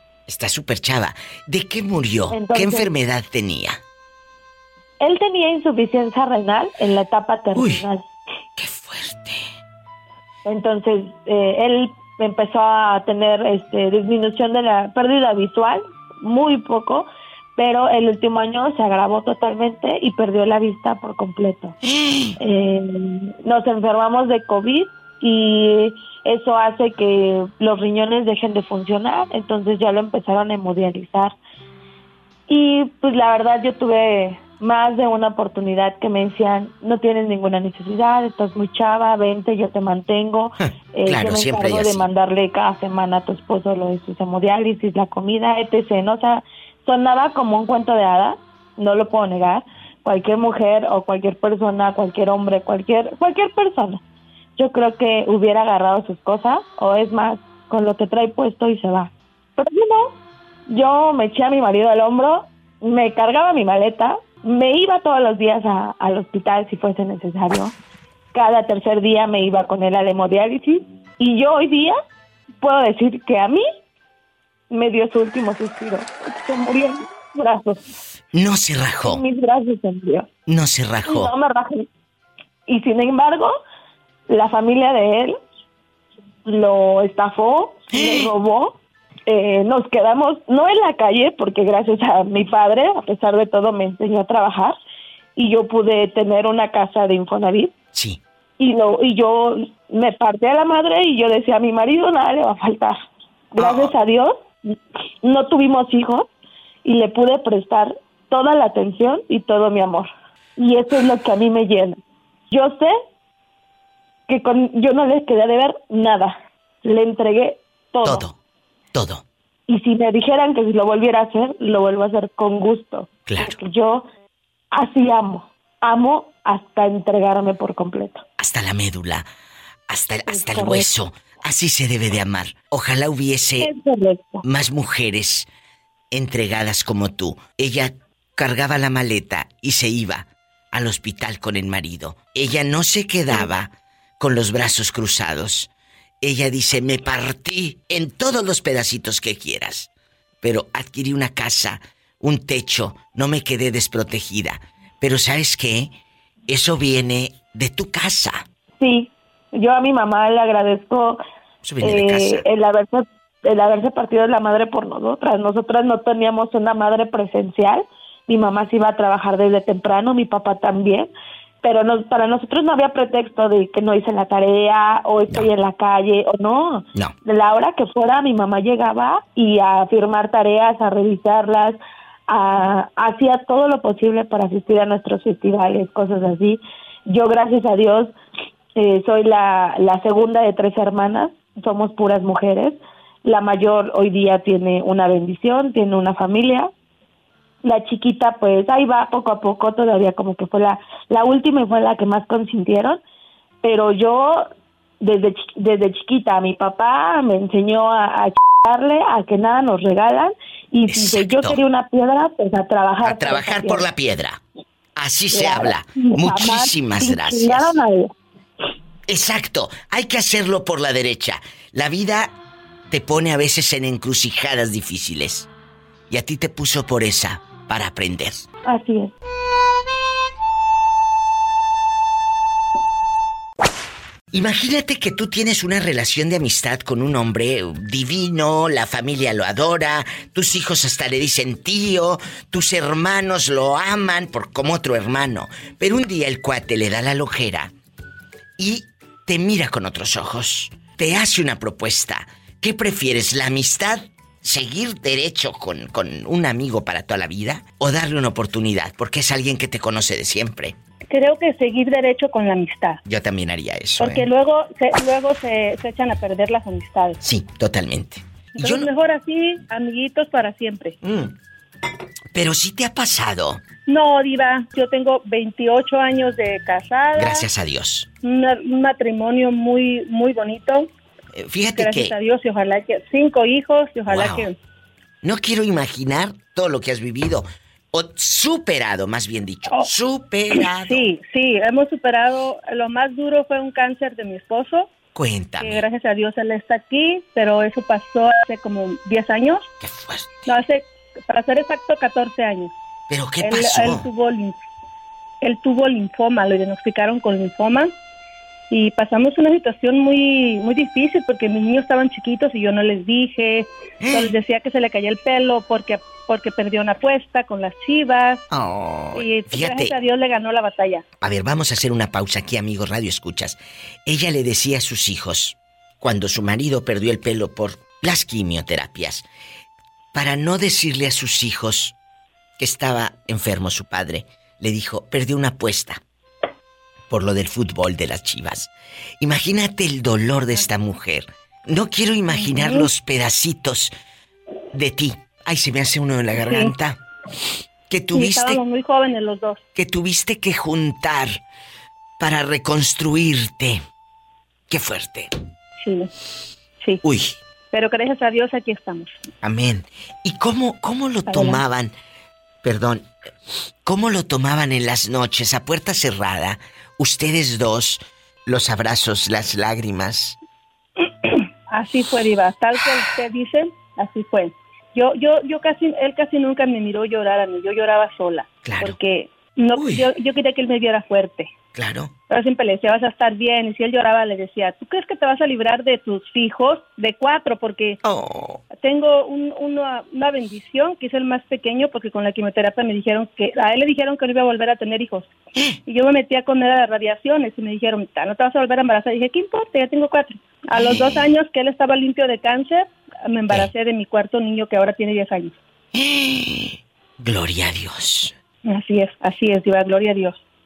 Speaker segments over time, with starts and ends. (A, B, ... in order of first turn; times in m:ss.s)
0:00.3-0:03.8 A
0:02.3-0:02.9 B
0:05.0-0:08.1 B
0:07.6-0:07.8 A
0:08.6-0:09.5 A
0:10.4-0:21.8 B
0:21.8-0:22.4 A
0:22.4-0:31.4 B
0:32.5-0:54.0 B
0:40.7-0:42.0 A
0:54.6-1:00.2 B
1:00.7-1:07.7 B
1:08.3-1:12.0 B
1:12.6-1:13.7 B
1:14.7-1:17.8 B
1:18.3-1:19.2 A
1:19.1-1:20.3 B
1:20.5-1:21.3 A
1:21.1-1:21.9 B
1:22.7-1:23.6 B
1:24.3-1:25.4 B
1:26.5-1:34.8 B
1:27.9-1:28.3 A
1:35.4-1:37.7 B
1:37.9-1:38.2 A
1:38.6-1:43.0 B
1:43.5-1:44.5 B
1:43.6-1:43.9 A
1:45.2-1:46.3 B
1:46.8-1:52.0 B
1:52.5-1:52.9 B
1:54.3-1:58.3 B
1:58.0-1:58.4 A
1:58.9-1:59.2 A
1:59.7-2:04.1 B
2:03.3-2:03.6 A
2:04.7-2:08.2 B
2:08.4-2:09.3 A
2:09.9-2:13.7 A
2:10.3-2:10.9 B
2:13.6-2:14.4 B
2:14.4-2:15.5 A
2:16.1-2:25.7 A
2:26.2-2:29.9 A
2:30.4-2:35.9 A
2:36.5-2:38.4 A
2:38.8-2:41.2 B
2:41.6-2:42.4 A
2:41.8-2:51.1 B
2:51.6-3:01.8 B
3:02.3-3:08.1 B
3:08.8-3:16.7 B
3:17.6-3:23.0 B
3:23.6-3:24.5 B
3:25.0-3:33.8 B
3:30.9-3:31.6 A
3:33.0-3:34.4 A
3:35.0-3:37.7 A
3:35.3-3:38.1 B
3:39.1-3:42.3 A
3:42.9-3:45.5 A
3:46.1-3:48.5 A
3:48.7-3:49.1 B
3:54.3-4:07.7 A
4:08.6-4:20.8 A
4:21.1-4:23.0 C
4:23.0-4:24.3 A
4:24.0-4:27.2 C
4:27.2-4:28.9 A
4:28.6-4:31.0 C
4:31.0-4:31.3 A
4:32.3-4:33.6 A
4:33.9-4:37.5 C
4:37.2-4:38.1 A
4:38.2-4:40.9 C
4:41.3-4:42.2 A
4:41.8-4:44.6 C
4:44.1-4:44.5 A
4:45.2-4:51.1 A
4:50.5-4:54.9 C
4:55.2-4:55.8 A
4:55.6-4:59.7 C
4:59.8-5:00.5 A
5:00.5-5:02.7 C
5:03.1-5:04.1 A
5:03.4-5:04.6 C
5:05.4-5:07.9 C
5:08.7-5:18.4 C
5:14.0-5:14.3 A
5:18.5-5:20.0 A
5:19.1-5:21.0 C
5:21.2-5:29.2 A
5:30.1-5:32.0 A
5:32.6-5:36.0 A
5:37.1-5:43.9 A
5:42.5-5:42.8 C
5:44.7-5:47.0 A
5:46.4-5:46.7 C
5:47.9-5:48.6 A
5:48.1-5:49.6 C
5:49.8-5:51.4 A
5:52.2-5:53.8 A
5:54.7-5:55.3 A
5:55.8-5:56.1 C
5:57.0-5:57.4 A
5:57.7-5:59.2 C
5:59.4-6:01.9 A
6:01.3-6:01.6 C
6:02.6-6:03.1 A
6:03.8-6:10.4 A
6:11.7-6:21.5 C
6:18.6-6:19.0 A
6:19.8-6:20.1 A
6:21.8-6:22.1 A
6:22.3-6:28.0 C
6:28.0-6:28.6 A
6:28.7-6:35.3 C
6:35.9-6:45.6 C
6:40.8-6:41.3 A
6:45.9-6:48.3 A
6:48.7-6:50.4 C